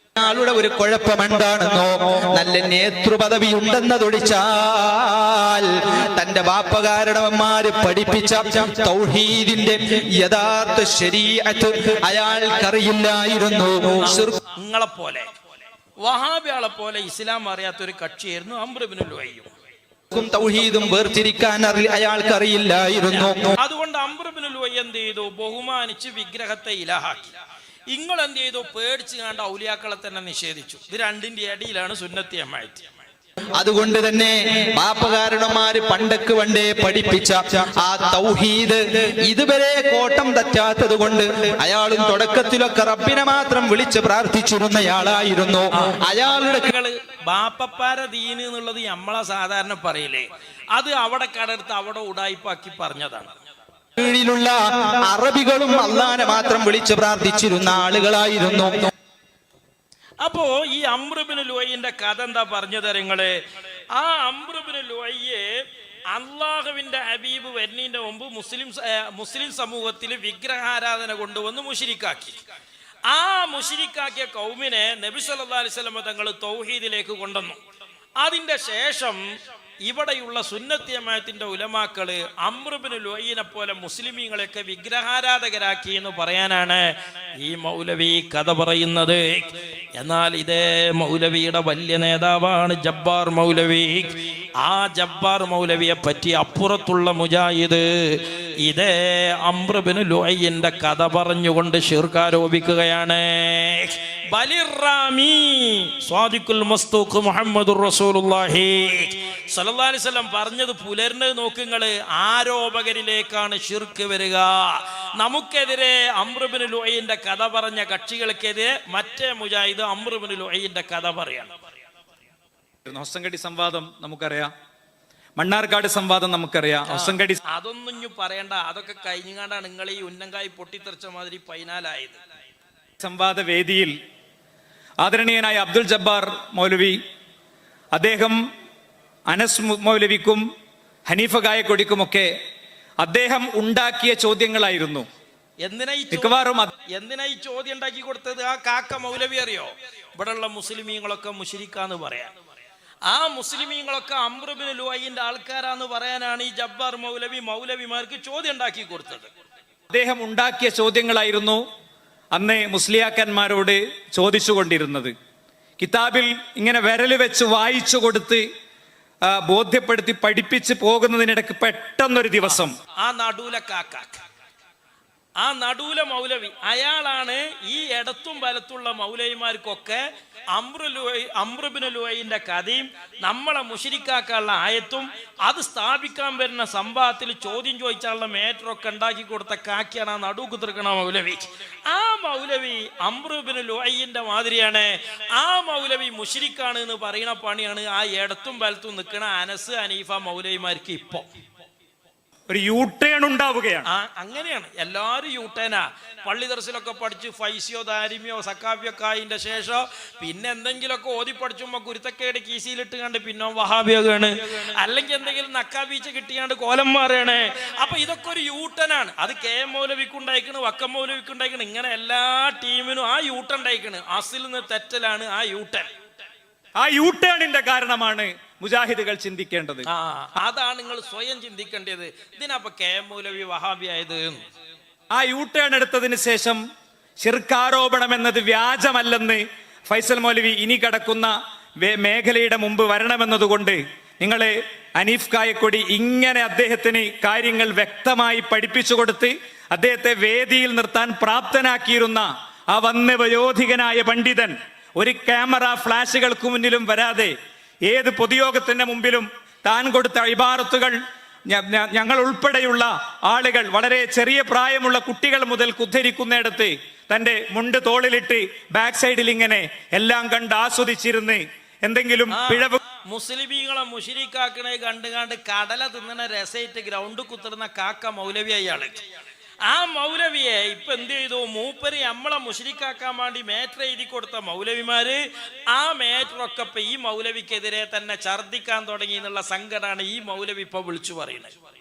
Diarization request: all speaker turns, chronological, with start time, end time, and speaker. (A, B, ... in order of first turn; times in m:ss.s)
0:00.2-0:14.4 A
0:14.6-0:15.3 B
0:16.0-0:19.5 B
0:20.1-0:23.6 A
0:23.6-0:27.3 B
0:27.9-0:32.9 B
0:33.6-0:46.7 A
0:45.8-0:53.3 B
0:54.0-0:58.9 A
1:00.2-1:03.4 B
1:04.0-1:05.5 B
1:06.1-1:12.4 B
1:13.1-1:17.6 B
1:18.2-1:19.2 B
1:19.8-2:01.5 B
2:02.9-2:04.5 C
2:05.4-2:07.4 C
2:06.9-2:12.2 B
2:13.0-2:13.9 C
2:15.0-2:17.0 C
2:17.9-2:18.4 C
2:19.3-2:20.4 C
2:21.1-2:22.3 C
2:23.0-2:25.1 C
2:25.6-2:32.4 B
2:26.1-2:26.7 C
2:33.1-2:39.3 B
2:39.9-2:41.6 C
2:42.3-2:45.1 C
2:45.8-2:48.4 C
2:49.3-2:52.7 C
2:52.5-2:54.2 B
2:55.4-3:00.0 B
3:00.5-3:21.3 B
3:22.5-3:23.9 C
3:23.9-3:45.9 B
3:46.8-3:49.9 C
3:49.9-3:54.4 B
3:55.1-3:56.6 C
3:57.2-4:01.3 C
4:01.8-4:17.3 C
4:17.9-4:20.9 C
4:21.5-4:32.8 C
4:32.3-4:39.0 B
4:39.6-4:45.2 B
4:45.7-4:51.5 B